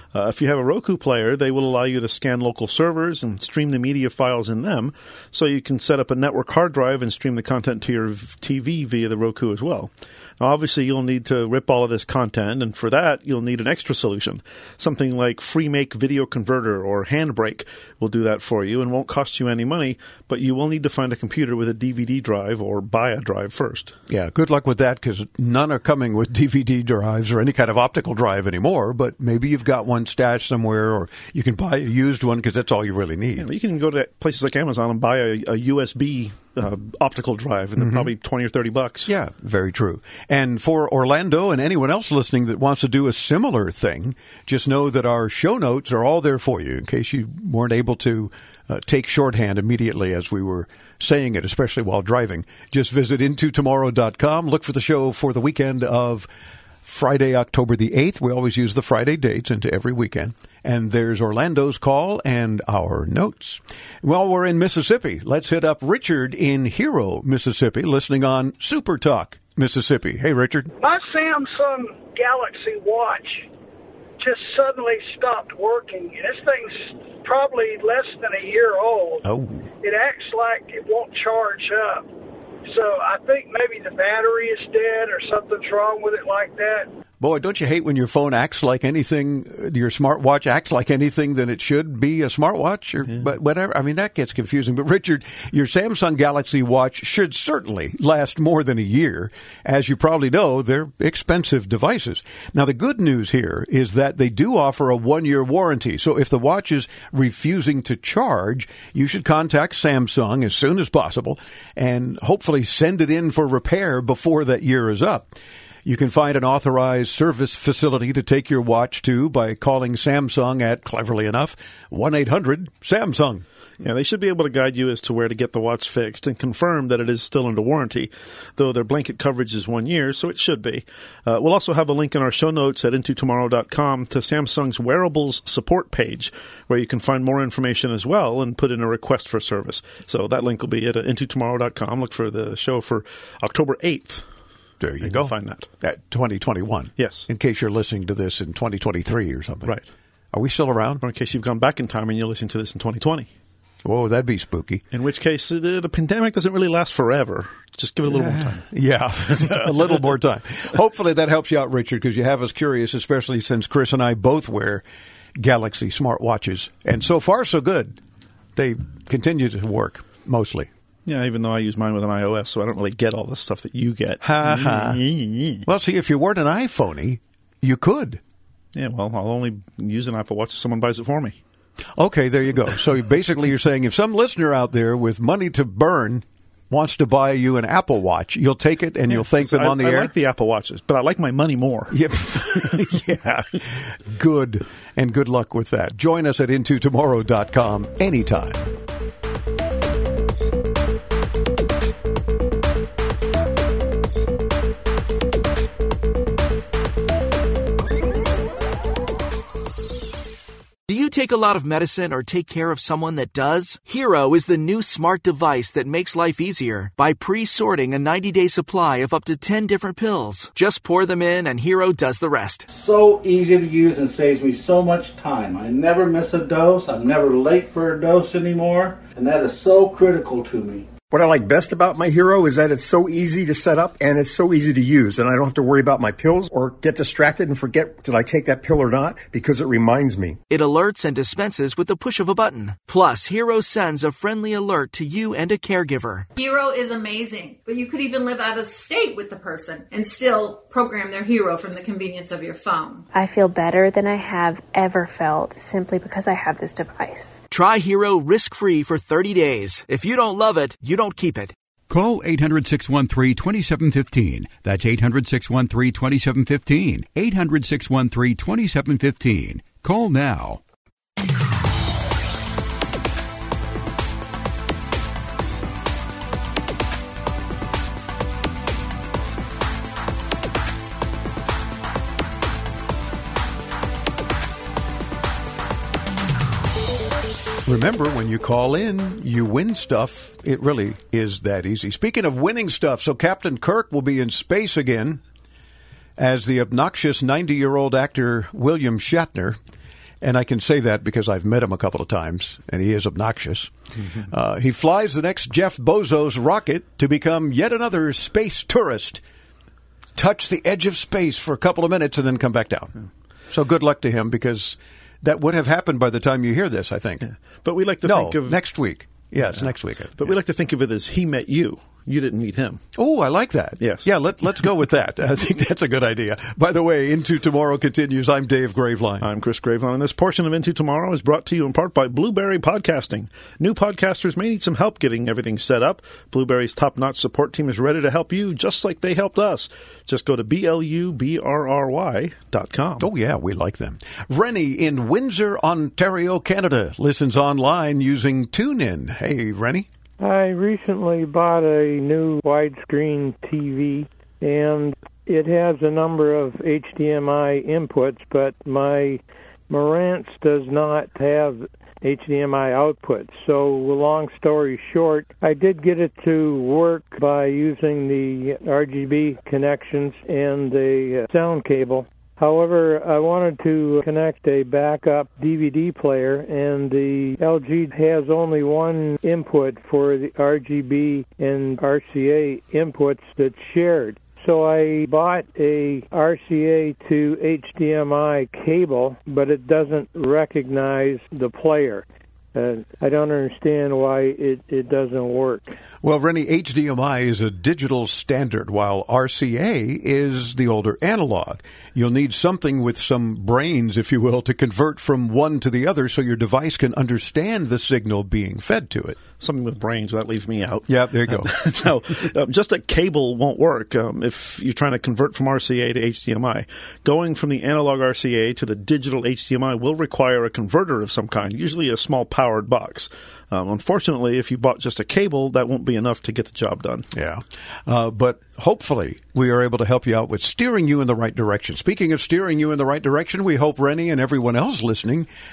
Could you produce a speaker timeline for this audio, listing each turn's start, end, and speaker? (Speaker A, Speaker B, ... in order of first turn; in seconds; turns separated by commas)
Speaker A: 0.1-23.9, Speaker B: 24.1-33.5, Speaker A: 33.4-39.1, Speaker B: 37.8-38.1, Speaker B: 39.1-56.3, Speaker B: 56.8-70.7, Speaker C: 70.8-73.5, Speaker C: 74.2-79.2, Speaker B: 79.2-79.7, Speaker C: 79.8-82.1, Speaker C: 82.7-86.9, Speaker B: 87.2-115.3, Speaker B: 115.8-123.5, Speaker A: 123.8-144.2, Speaker B: 144.8-149.8, Speaker A: 145.0-145.7, Speaker A: 147.0-147.3, Speaker B: 150.3-151.0, Speaker A: 151.0-153.3, Speaker B: 153.8-154.8, Speaker A: 154.9-158.7, Speaker B: 158.1-164.8, Speaker A: 159.3-160.0, Speaker B: 165.4-168.0, Speaker B: 168.6-170.7, Speaker A: 171.1-175.6, Speaker B: 174.2-175.0, Speaker B: 175.7-178.2, Speaker A: 178.8-181.4, Speaker B: 182.0-190.1, Speaker A: 189.1-192.8, Speaker B: 191.9-198.7, Speaker D: 210.9-222.7, Speaker E: 222.8-230.8, Speaker F: 231.1-240.4, Speaker D: 240.5-246.3, Speaker G: 246.4-253.1, Speaker H: 253.1-257.4, Speaker D: 257.5-261.6, Speaker I: 261.9-270.6, Speaker B: 287.7-295.2, Speaker B: 296.2-299.6, Speaker B: 300.2-303.7, Speaker B: 304.3-309.2, Speaker B: 310.2-312.9, Speaker B: 313.5-317.3, Speaker A: 317.2-318.6, Speaker B: 318.0-320.4, Speaker A: 319.4-322.8, Speaker B: 322.9-329.3, Speaker A: 323.8-324.1, Speaker A: 329.2-343.1, Speaker B: 343.0-349.9, Speaker J: 350.2-395.8, Speaker B: 396.0-409.2, Speaker A: 409.4-427.1, Speaker B: 410.9-411.5, Speaker B: 427.1-435.3